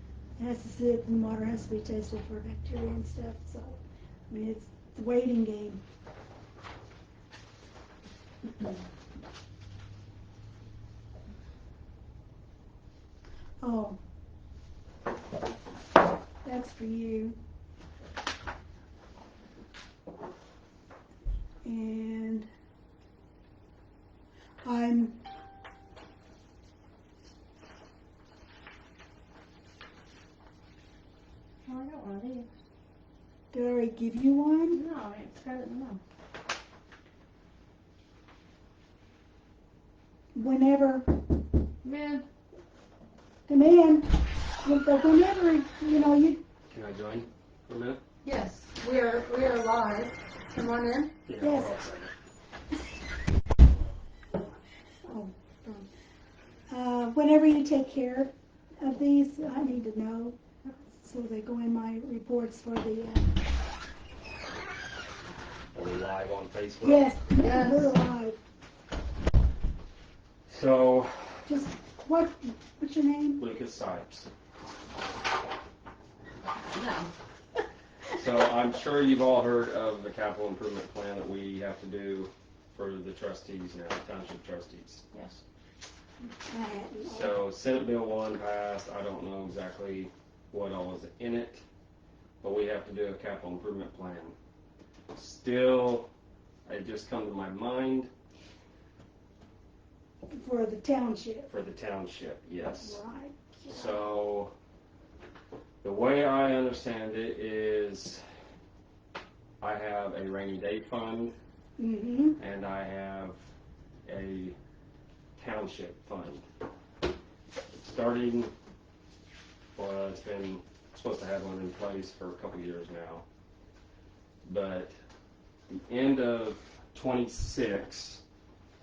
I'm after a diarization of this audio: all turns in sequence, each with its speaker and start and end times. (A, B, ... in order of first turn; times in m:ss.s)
0:00.4-0:05.8 A
0:13.6-0:14.0 A
0:16.4-0:17.4 A
0:21.6-0:22.5 A
0:24.6-0:25.2 A
0:31.6-0:32.5 B
0:33.5-0:34.8 A
0:34.7-0:36.0 B
0:40.3-0:41.1 A
0:41.8-0:42.2 B
0:43.5-0:44.1 A
0:44.6-0:46.4 A
0:46.7-0:48.0 C
0:48.2-0:51.1 D
0:51.3-0:52.1 C
0:51.4-0:51.8 A
0:55.0-0:55.8 A
0:56.7-1:00.4 A
1:00.9-1:03.3 A
1:05.7-1:07.1 C
1:06.8-1:08.4 A
1:07.4-1:07.9 D
1:10.5-1:11.5 C
1:11.4-1:13.4 A
1:13.4-1:14.3 C
1:16.6-1:17.1 B
1:18.1-1:25.0 C
1:25.1-1:25.4 B
1:26.5-1:27.4 A
1:27.0-1:31.6 C
1:32.4-1:34.3 C
1:35.1-1:36.1 C
1:36.6-1:38.1 C
1:40.3-1:41.5 A
1:41.5-1:43.0 C
1:42.8-1:44.0 A
1:43.6-1:44.5 C
1:45.8-1:48.2 C
1:49.6-1:51.3 C
1:51.8-1:52.4 A
1:52.4-1:53.4 C
1:54.0-1:54.6 C
1:55.4-1:56.4 C
1:57.8-1:58.5 C
1:59.7-2:03.2 C
2:04.4-2:04.9 C
2:05.7-2:08.2 C